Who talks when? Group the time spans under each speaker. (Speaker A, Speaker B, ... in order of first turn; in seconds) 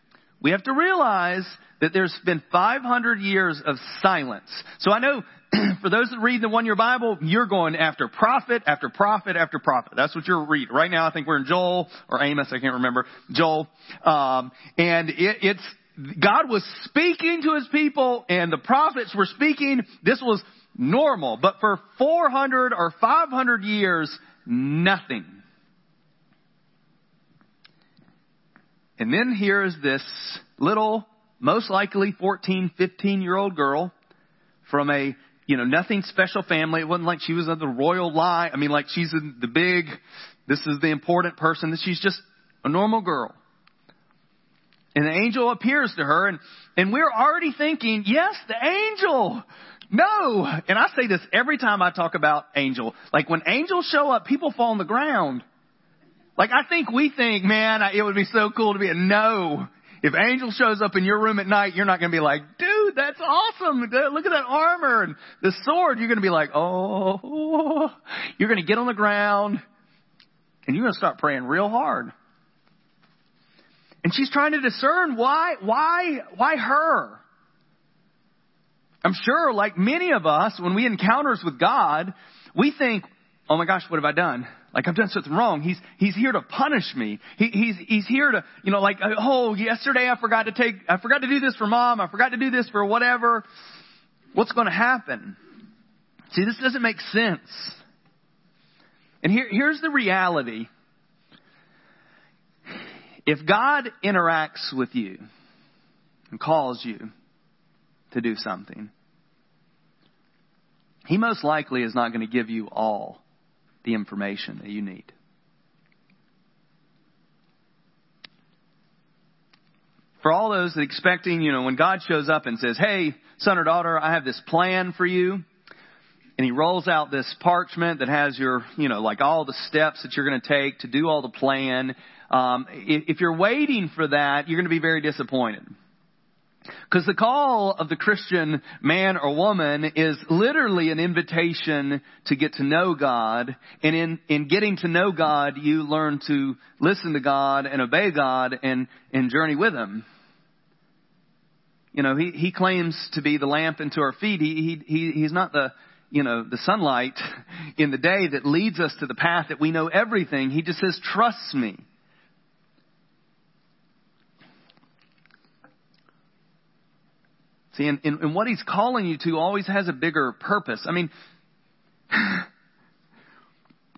Speaker A: 0.4-25.4, 29.0-33.9, 34.7-43.4, 45.0-55.4, 56.4-69.6, 70.7-72.1, 74.0-77.2, 79.0-93.5, 94.3-95.4, 96.3-97.8, 99.2-100.7, 103.3-105.2, 106.3-107.1, 108.1-108.9, 111.1-113.2, 113.8-115.1, 120.2-125.4, 126.4-135.7, 136.9-150.1, 151.9-157.2, 157.8-161.8, 167.7-171.1, 172.1-172.5